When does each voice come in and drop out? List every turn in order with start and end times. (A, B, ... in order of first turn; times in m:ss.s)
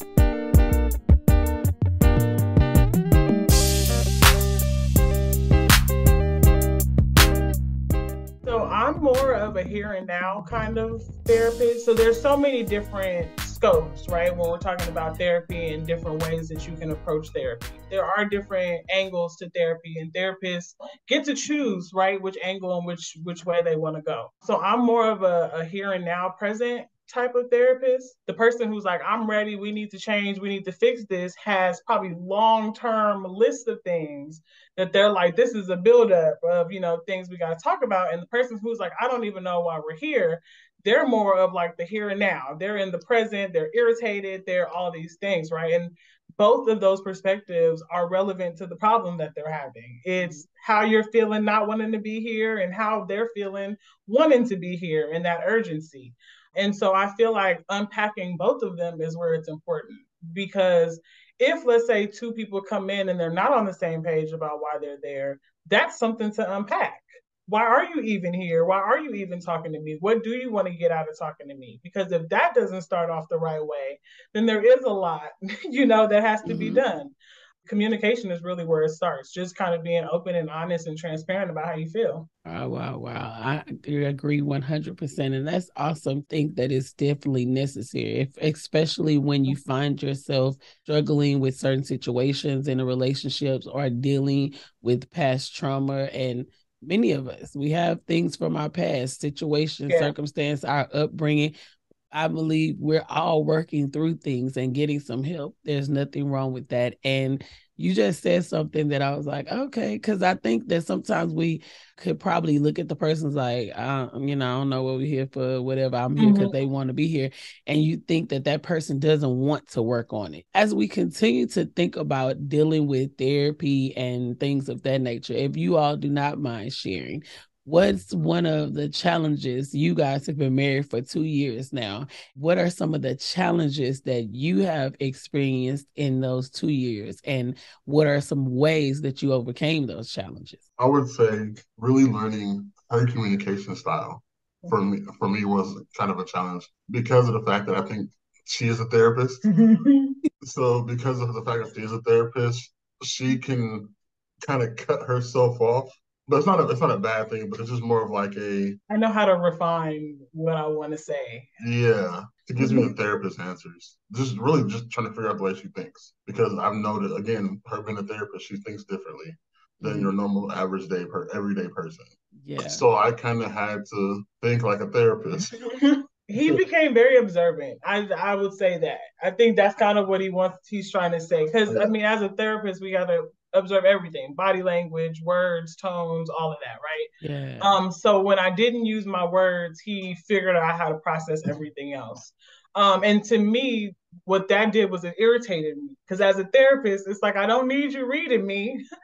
0:08.4-1:17.1 A
0:50.2-0:50.4 B
1:16.4-1:16.8 B
1:17.6-1:22.3 A
1:22.4-1:41.5 B
1:39.9-1:40.1 A
1:42.1-2:20.6 B
1:56.2-1:56.5 A
2:20.8-2:29.5 C
2:29.4-2:30.2 A
2:30.4-2:38.8 C
2:38.9-2:41.5 A
2:41.6-2:55.5 C
2:42.6-2:42.9 A
2:49.8-2:50.1 B
2:52.4-2:52.8 B
2:55.7-3:07.1 A
3:01.7-3:01.9 C
3:07.2-3:07.7 B
3:07.6-3:18.8 A